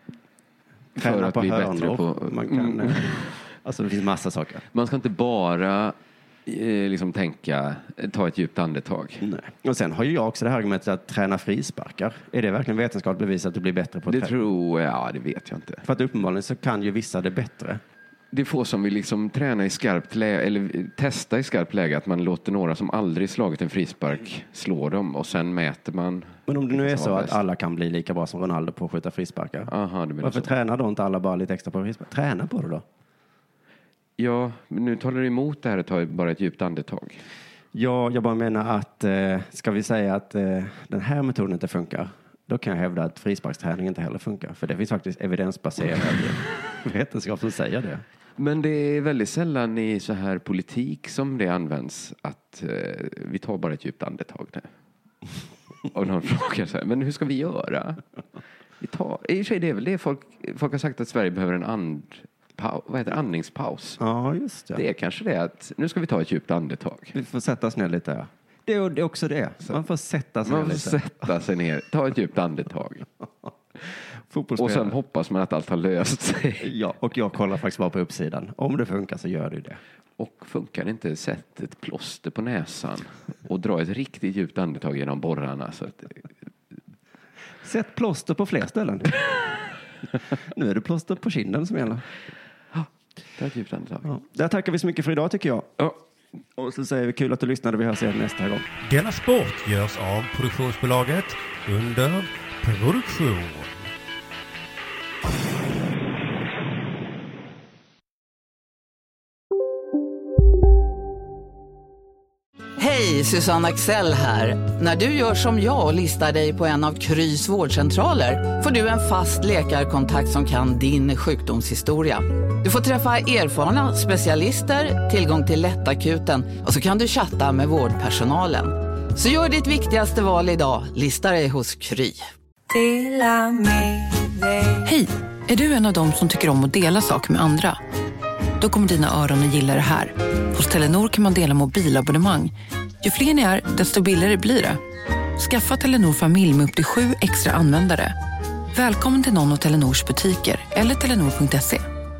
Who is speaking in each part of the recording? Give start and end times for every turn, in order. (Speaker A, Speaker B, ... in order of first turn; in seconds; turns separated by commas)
Speaker A: 0.9-3.4, Speaker B: 0.9-4.6, Speaker A: 4.7-5.9, Speaker A: 6.5-9.2, Speaker B: 9.2-14.4, Speaker A: 14.1-15.8, Speaker B: 15.8-17.8, Speaker A: 18.3-27.4, Speaker B: 26.5-29.7, Speaker A: 29.7-30.5, Speaker B: 30.2-32.8, Speaker A: 34.2-37.2, Speaker B: 37.7-48.0, Speaker A: 48.4-54.7, Speaker A: 55.9-58.0, Speaker A: 58.8-64.0, Speaker B: 64.0-64.8, Speaker A: 64.7-67.1, Speaker B: 67.1-71.0, Speaker A: 70.4-73.0, Speaker B: 74.3-74.9, Speaker A: 74.6-76.7, Speaker B: 76.6-79.8, Speaker A: 80.2-86.2, Speaker B: 87.6-89.1, Speaker B: 90.5-92.0, Speaker A: 93.4-94.1, Speaker B: 94.0-95.7, Speaker B: 96.6-98.7, Speaker C: 98.8-103.7, Speaker D: 112.8-132.2, Speaker E: 134.8-137.8, Speaker E: 138.6-144.8, Speaker E: 145.4-148.2, Speaker E: 148.7-151.8